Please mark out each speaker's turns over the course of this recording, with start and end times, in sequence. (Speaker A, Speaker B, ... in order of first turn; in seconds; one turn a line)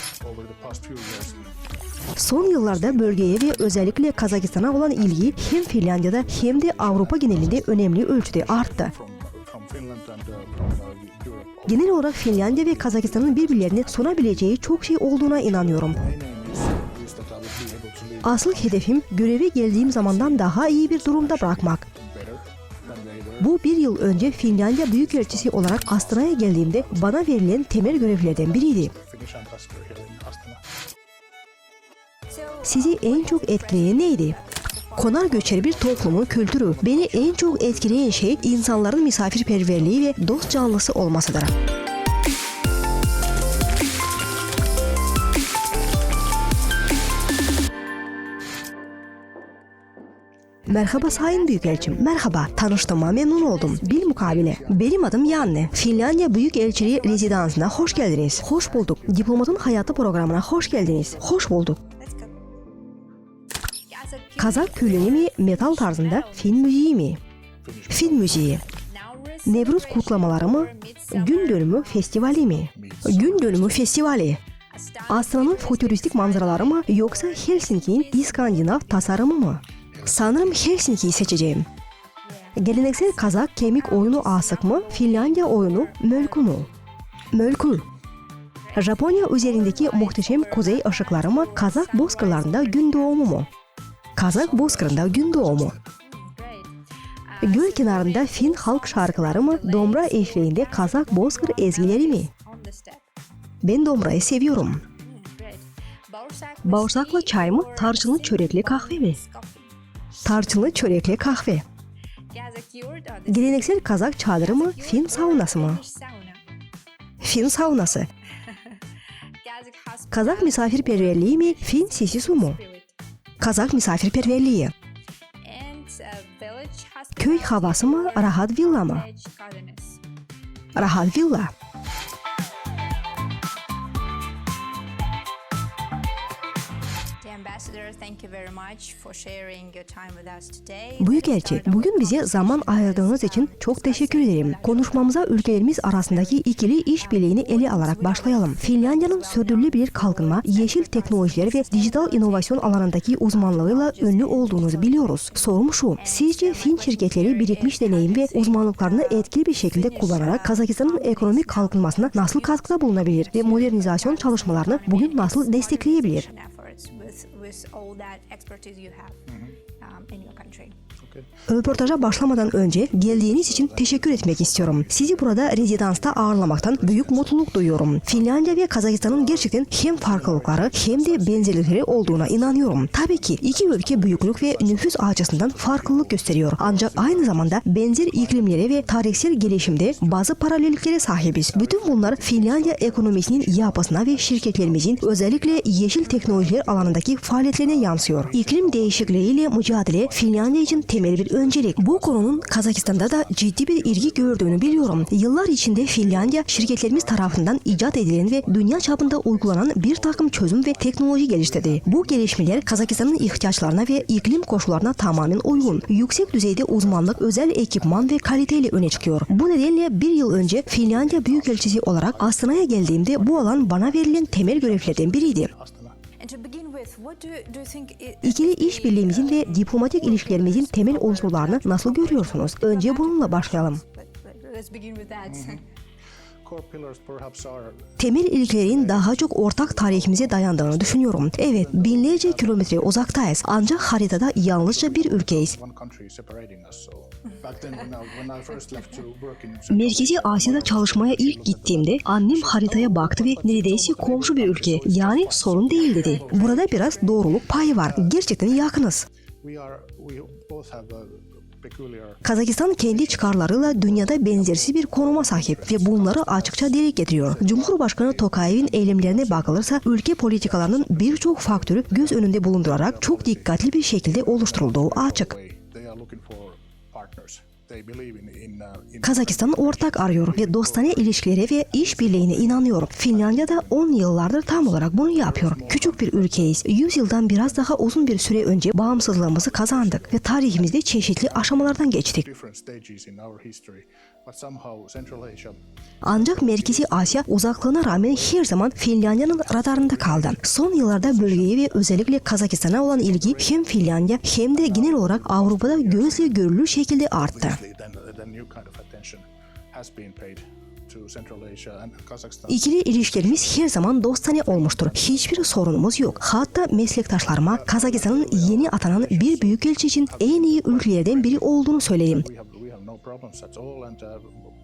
Speaker A: 0.2-1.5
Speaker B: 2.2-8.9
Speaker A: 2.7-4.0
Speaker A: 6.2-14.3
Speaker B: 11.7-16.0
Speaker A: 15.6-18.8
Speaker B: 18.2-21.9
Speaker A: 19.9-23.5
Speaker C: 22.9-23.2
Speaker B: 23.4-28.9
Speaker A: 24.4-30.6
Speaker C: 32.3-35.3
Speaker B: 32.6-34.4
Speaker B: 35.0-41.5
Speaker A: 35.6-38.3
Speaker B: 50.7-61.8
Speaker C: 50.8-51.6
Speaker A: 51.9-55.7
Speaker A: 57.8-61.3
Speaker C: 62.0-62.3
Speaker C: 63.9-66.6
Speaker B: 64.4-67.2
Speaker A: 67.7-68.4
Speaker B: 67.9-68.6
Speaker C: 68.7-72.3
Speaker B: 69.5-74.4
Speaker A: 72.8-73.8
Speaker C: 74.7-79.2
Speaker B: 75.1-81.7
Speaker C: 82.3-86.7
Speaker B: 82.6-86.7
Speaker B: 87.3-87.9
Speaker C: 88.7-93.0
Speaker B: 88.7-93.5
Speaker B: 94.2-95.8
Speaker A: 94.5-95.8
Speaker C: 96.1-96.7
Speaker C: 97.3-103.0
Speaker B: 97.4-102.3
Speaker B: 103.6-104.8
Speaker C: 105.0-109.7
Speaker B: 106.7-109.2
Speaker B: 110.2-111.7
Speaker C: 112.3-116.4
Speaker B: 113.3-115.8
Speaker B: 117.2-118.1
Speaker C: 119.4-123.0
Speaker B: 120.1-122.6
Speaker B: 123.4-124.7
Speaker C: 125.4-130.0
Speaker B: 127.2-129.1
Speaker B: 130.8-131.5
Speaker C: 137.2-145.1
Speaker B: 141.0-166.3
Speaker C: 147.0-170.8
Speaker B: 171.5-225.5
Speaker A: 172.9-175.3
Speaker A: 176.6-177.2
Speaker A: 180.0-187.5
Speaker A: 188.1-190.3
Speaker A: 191.5-196.9
Speaker A: 197.9-199.3
Speaker A: 200.0-205.1
Speaker A: 205.9-216.2
Speaker A: 216.8-217.2
Speaker A: 217.8-219.2
Speaker A: 220.4-225.9
Speaker C: 226.2-229.7
Speaker B: 228.2-233.8
Speaker A: 230.5-232.5
Speaker C: 232.5-235.7
Speaker A: 235.3-235.6
Speaker A: 236.5-237.9
Speaker B: 238.0-245.6
Speaker A: 239.7-240.8
Speaker A: 242.5-243.0
Speaker A: 244.4-251.8
Speaker C: 247.4-247.9
Speaker B: 249.7-259.1
Speaker A: 252.3-257.3
Speaker A: 259.4-262.2
Speaker B: 262.2-275.4
Speaker A: 264.1-266.7
Speaker A: 267.3-267.6
Speaker A: 268.2-269.4
Speaker A: 270.6-272.1
Speaker A: 272.8-280.9
Speaker B: 279.0-292.3
Speaker A: 281.8-282.6
Speaker A: 285.2-286.4
Speaker A: 288.8-290.2
Speaker A: 292.4-295.6
Speaker B: 296.0-307.6
Speaker A: 296.2-297.1
Speaker A: 299.6-300.3
Speaker A: 300.9-301.6
Speaker A: 303.2-303.6
Speaker A: 304.7-306.3
Speaker A: 307.3-309.2
Speaker A: 309.8-312.6
Speaker B: 312.5-322.3
Speaker A: 314.7-315.4
Speaker A: 317.6-319.6
Speaker A: 320.1-321.4
Speaker A: 322.2-324.3